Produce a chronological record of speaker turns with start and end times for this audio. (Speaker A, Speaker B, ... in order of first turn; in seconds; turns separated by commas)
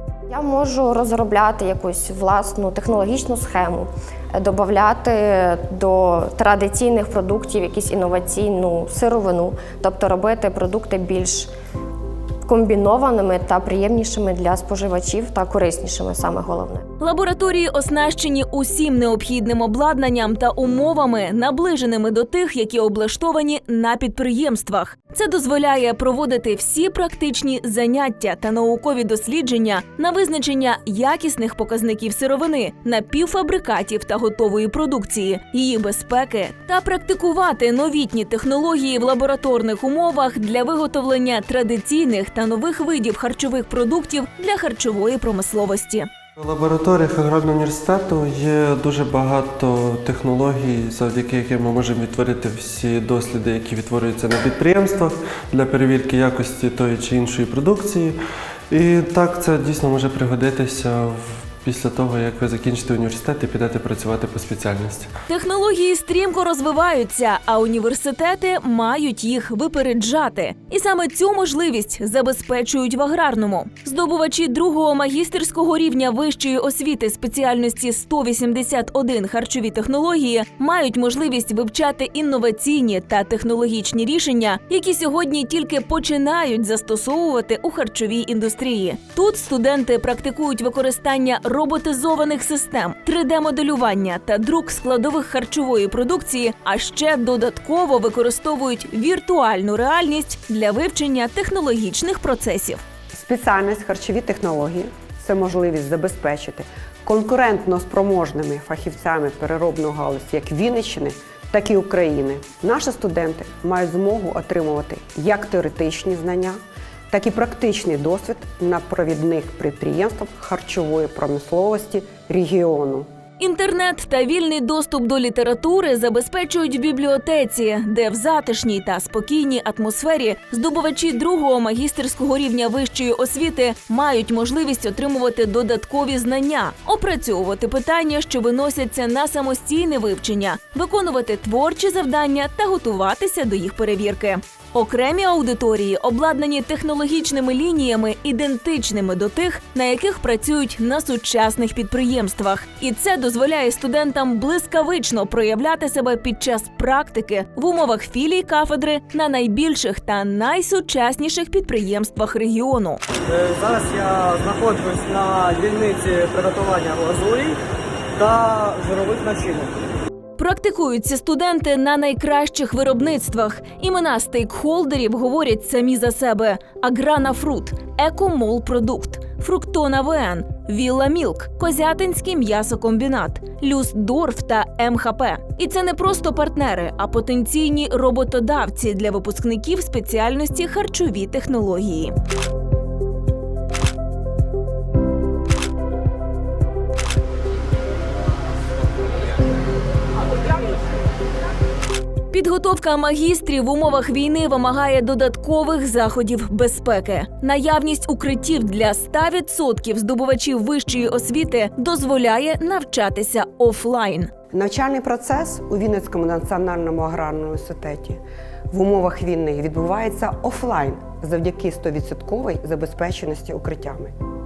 Speaker A: 0.3-11.5, Speaker A: 12.5-16.8, Speaker B: 17.0-46.1, Speaker C: 46.4-58.2, Speaker C: 58.7-65.1, Speaker B: 65.3-102.8, Speaker D: 103.1-116.6, Speaker D: 117.1-123.1, Speaker B: 123.4-163.0, Speaker E: 163.3-167.6, Speaker E: 168.2-169.8, Speaker B: 170.4-192.2, Speaker B: 202.3-214.3, Speaker D: 214.5-218.2, Speaker D: 218.7-224.1